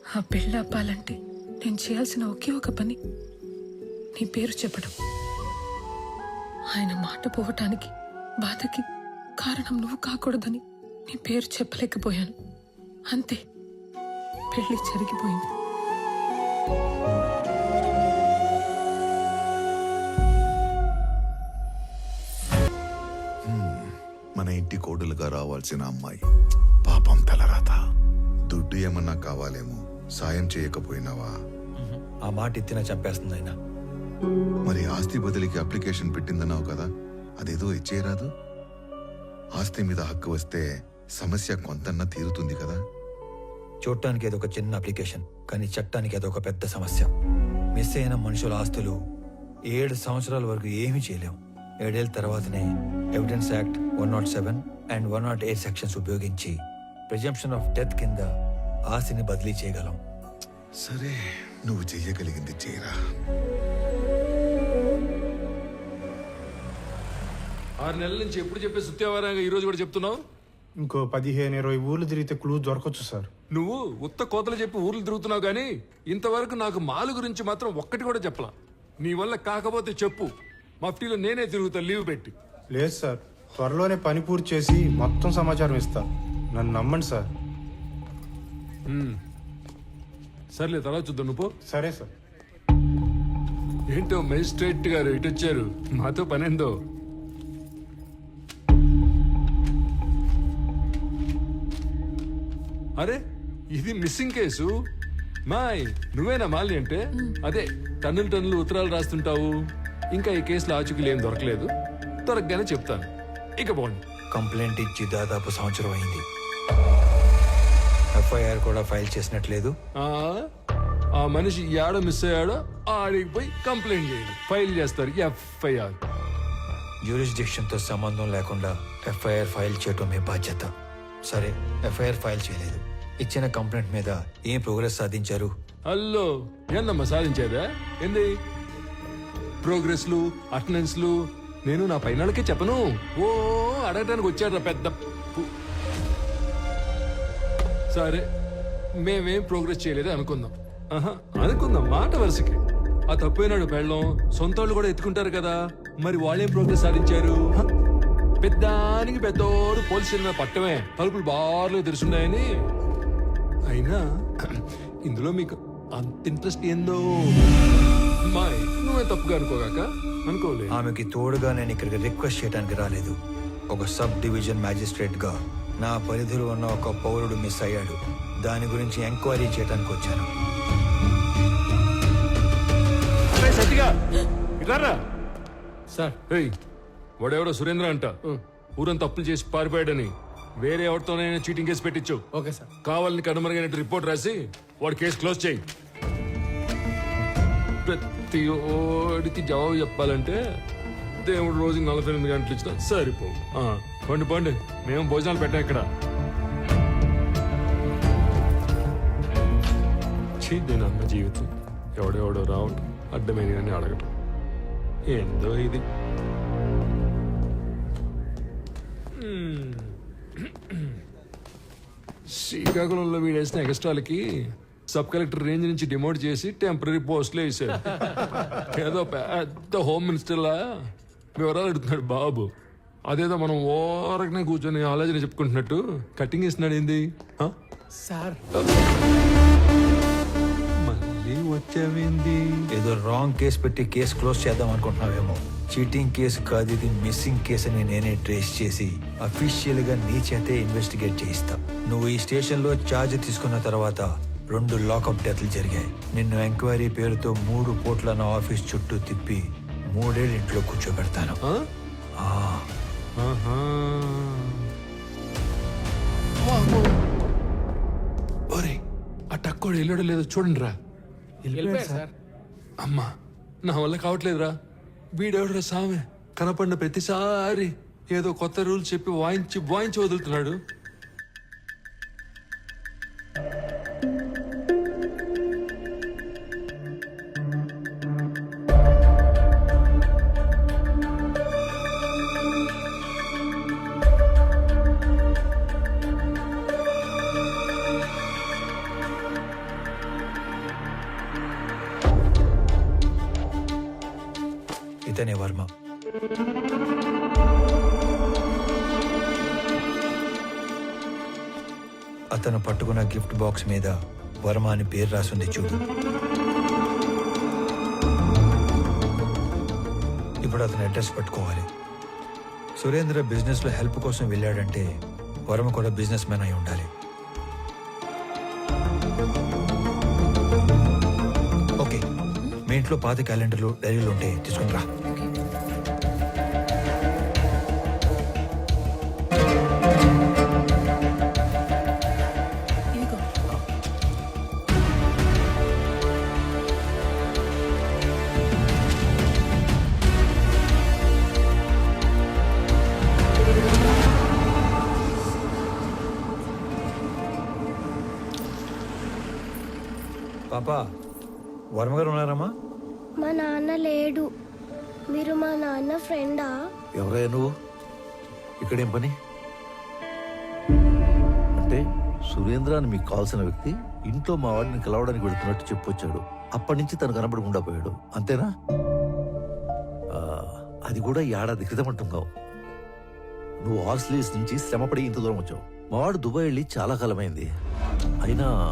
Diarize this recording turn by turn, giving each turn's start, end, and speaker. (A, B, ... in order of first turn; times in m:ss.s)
0:00.2-0:03.0 A
0:04.2-0:04.9 A
0:06.7-0:07.9 A
0:08.4-0:08.8 A
0:09.4-0:12.3 A
0:13.1-0:13.4 A
0:14.5-0:15.5 A
0:23.5-0:23.9 B
0:24.4-0:26.2 B
0:26.9-0:27.8 B
0:28.5-0:31.3 B
0:31.8-0:33.5 C
0:34.6-0:36.8 B
0:37.4-0:38.3 B
0:39.6-0:40.6 B
0:41.2-0:42.8 B
0:43.8-0:47.1 C
0:47.8-0:48.9 C
0:49.7-0:56.6 C
0:57.1-0:58.3 C
0:58.9-1:00.0 C
1:00.8-1:02.9 B
1:07.8-1:10.2 D
1:10.8-1:13.3 E
1:13.5-1:18.5 D
1:19.0-1:20.3 D
1:20.8-1:22.3 D
1:22.7-1:27.2 E
1:28.9-1:29.2 D
1:30.5-1:31.5 D
1:31.6-1:32.1 E
1:33.9-1:36.7 D
1:43.7-1:44.7 D
1:45.5-1:49.5 D
1:50.1-1:51.7 D
1:52.3-1:53.1 D
1:53.6-1:54.0 D
1:54.3-1:56.2 C
1:58.2-1:59.7 C
2:00.0-2:00.4 D
2:01.2-2:06.0 D
2:07.0-2:10.7 C
2:11.3-2:15.5 C
2:15.9-2:18.3 D
2:19.6-2:21.1 D
2:21.6-2:25.5 D
2:27.9-2:28.2 D
2:29.0-2:37.6 D
2:38.4-2:42.4 D
2:43.7-2:47.4 D
2:48.3-2:50.8 D
2:50.7-2:53.2 C
2:53.7-3:00.3 C
3:03.4-3:03.9 D
3:04.6-3:05.0 D
3:07.2-3:08.2 D
3:08.8-3:12.2 D
3:12.4-3:12.6 F
3:12.8-3:15.6 D
3:17.8-3:20.4 D
3:21.2-3:25.9 D
3:30.4-3:34.1 D
3:35.1-3:35.8 D
3:39.2-3:41.0 D
3:42.3-3:44.2 D
3:44.9-3:50.6 D
3:51.4-3:52.5 D
3:53.1-3:57.5 D
3:58.0-3:58.4 F
4:00.8-4:02.6 D
4:02.7-4:21.4 C
4:22.2-4:22.7 C
4:23.2-4:24.7 D
4:26.5-4:26.9 D
4:28.5-4:28.8 D
4:29.3-4:30.7 D
4:31.5-4:32.0 D
4:31.5-4:32.1 F
4:32.8-4:33.1 D
4:33.6-4:34.5 D
4:35.2-4:40.6 D
5:05.1-5:05.7 C
5:12.3-5:13.9 C
5:14.4-5:15.8 C
5:20.4-5:21.7 C
5:22.8-5:24.8 C
5:25.5-5:26.9 C
5:32.6-5:34.8 C
5:43.0-5:43.2 A
6:00.5-6:00.8 C
6:01.8-6:02.5 C
6:03.2-6:04.3 G
6:05.1-6:06.6 G
6:06.9-6:07.5 F
6:08.6-6:09.1 F
6:11.6-6:18.5 F
6:20.1-6:22.3 F
6:23.6-6:27.5 F
6:28.2-6:28.5 F